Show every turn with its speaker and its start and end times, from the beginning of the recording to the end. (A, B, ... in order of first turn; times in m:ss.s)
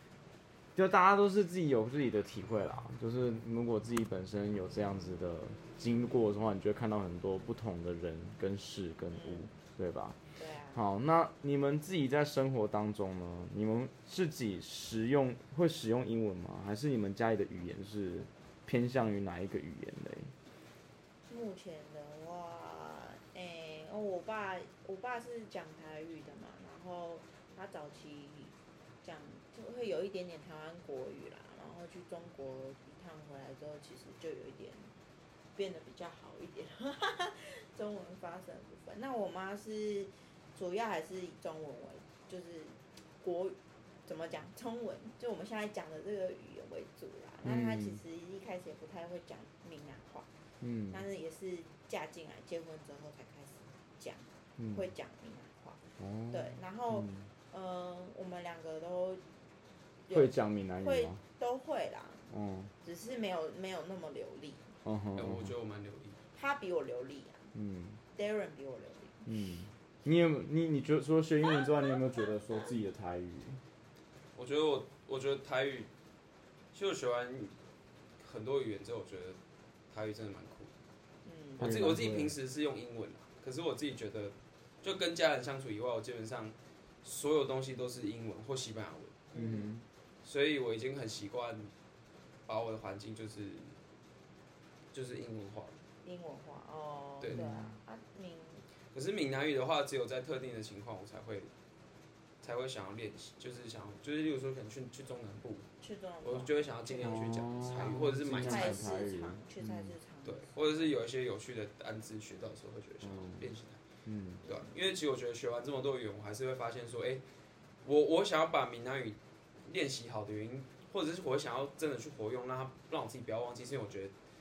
0:00.7-0:10.2 A
0:09.1-0:09.5 B
0:10.4-0:10.8 B
0:10.7-0:20.3 A
0:21.3-0:34.9 B
0:35.6-0:50.3 B
0:47.4-0:48.0 A
0:50.6-0:51.0 A
0:50.9-0:59.2 B
0:54.6-0:54.8 A
0:56.0-0:57.3 A
1:00.1-1:02.3 B
1:00.1-1:01.2 A
1:02.3-1:02.7 A
1:02.8-1:04.7 B
1:04.8-1:05.5 A
1:05.2-1:06.2 C
1:06.3-1:07.5 B
1:07.5-1:08.0 A
1:08.1-1:09.3 B
1:09.2-1:13.6 A
1:14.4-1:15.9 C
1:16.7-1:17.5 C
1:18.2-1:19.4 C
1:19.9-1:20.7 C
1:21.2-1:21.9 B
1:21.6-1:29.3 C
1:21.6-1:22.4 A
1:29.3-1:29.7 B
1:29.3-1:29.8 A
1:30.2-1:31.7 C
1:32.5-1:33.7 C
1:34.9-1:35.8 C
1:36.0-1:38.6 B
1:37.3-1:37.7 A
1:38.9-1:41.5 C
1:42.4-1:45.7 C
1:45.8-1:50.9 B
1:46.2-1:49.0 C
1:47.0-1:49.9 A
1:50.2-1:53.8 C
1:53.0-1:53.5 A
1:54.0-1:54.4 A
1:54.4-1:54.8 B
1:54.4-1:57.2 C
1:57.8-2:04.1 C